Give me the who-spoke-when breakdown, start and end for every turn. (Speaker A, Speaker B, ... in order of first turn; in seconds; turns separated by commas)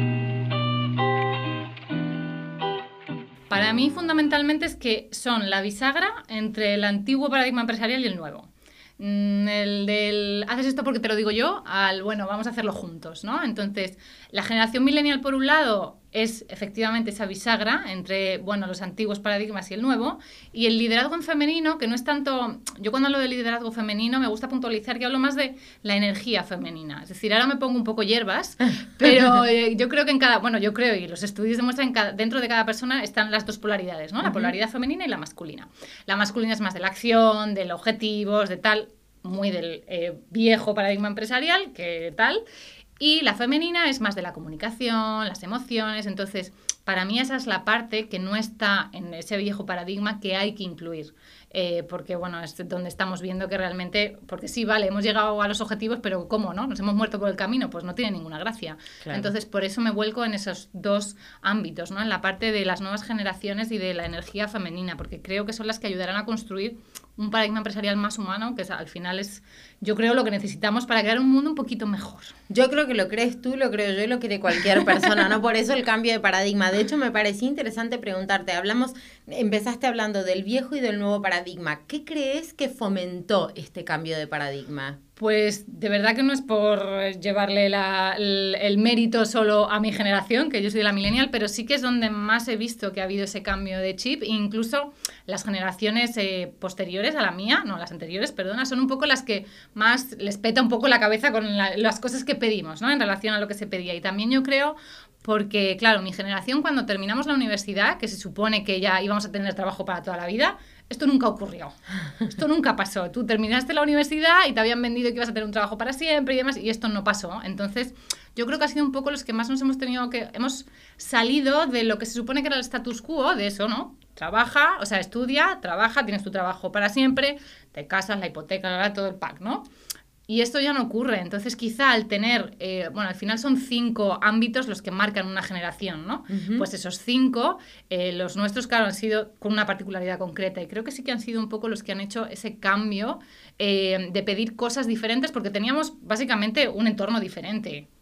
Speaker A: 3.5-42.4, Speaker B: 34.2-34.5, Speaker A: 43.0-72.3, Speaker B: 59.0-59.3, Speaker B: 72.5-85.0, Speaker A: 85.2-129.7, Speaker A: 130.3-147.9, Speaker B: 136.3-136.7